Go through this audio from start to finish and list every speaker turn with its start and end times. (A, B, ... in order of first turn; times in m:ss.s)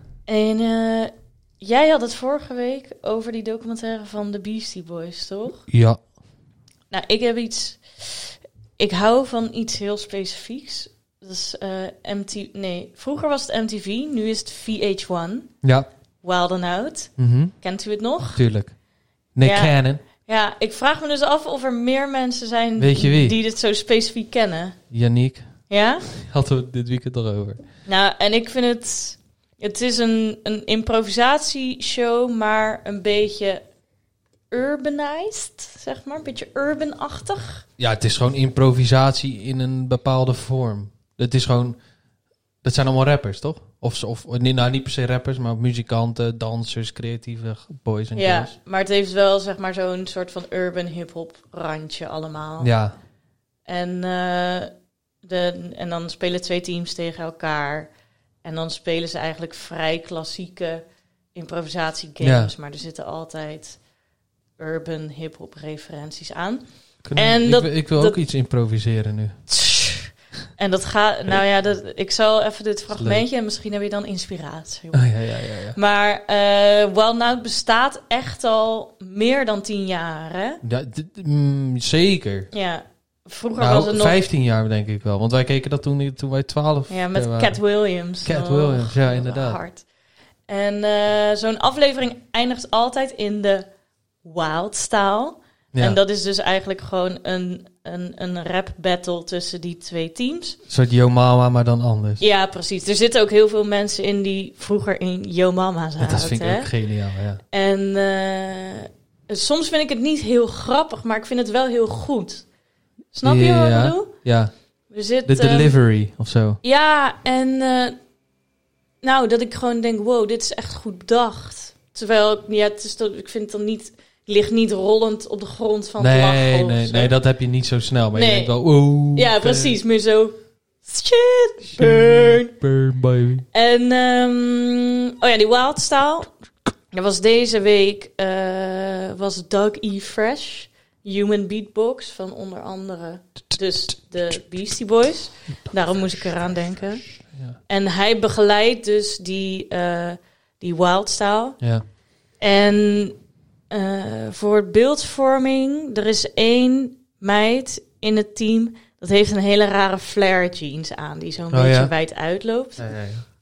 0:00.3-0:05.7 A
0:05.7-0:06.0 B
0:06.9-0:15.5 A
0:15.6-0:15.9 B
0:16.2-0:18.4 A
0:17.2-0:17.6 B
0:18.4-0:18.7 B
0:19.4-0:20.0 B
0:19.4-0:24.8 A
0:22.8-0:23.4 B
0:24.9-0:25.5 B
0:25.7-0:26.0 A
0:26.1-0:27.6 B
0:27.9-0:33.6 A
0:34.5-0:37.6 A
0:37.8-0:41.8 B
0:42.6-0:48.6 B
0:48.2-0:52.7 A
0:52.6-0:53.0 B
0:53.7-0:54.7 A
0:55.2-0:57.9 A
0:58.4-1:00.8 A
1:01.4-1:03.8 A
1:02.2-1:02.5 B
1:04.6-1:08.2 A
1:07.0-1:09.4 B
1:09.5-1:15.1 A
1:12.9-1:13.2 B
1:14.9-1:15.8 B
1:15.8-1:20.6 A
1:20.6-1:22.5 B
1:22.5-1:24.2 A
1:23.6-1:27.6 B
1:26.9-1:29.8 A
1:28.2-1:29.6 B
1:30.5-1:33.7 A
1:34.2-1:40.6 A
1:35.7-1:36.0 B
1:40.7-1:42.2 B
1:42.2-1:46.7 A
1:46.0-1:47.4 B
1:47.5-1:52.4 A
1:53.1-1:54.1 A
1:53.2-1:54.5 B
1:54.9-1:55.8 A
1:55.2-1:56.6 B
1:56.6-1:58.0 A
1:59.0-2:07.1 A
2:06.0-2:09.8 B
2:08.1-2:08.6 A
2:09.1-2:12.5 A
2:11.6-2:13.5 B
2:13.5-2:16.3 A
2:16.9-2:27.0 A
2:27.3-2:27.6 B
2:27.7-2:31.6 A
2:31.6-2:31.8 B
2:32.4-2:33.2 A
2:33.7-2:42.9 A
2:41.5-2:41.9 B
2:42.8-2:43.2 B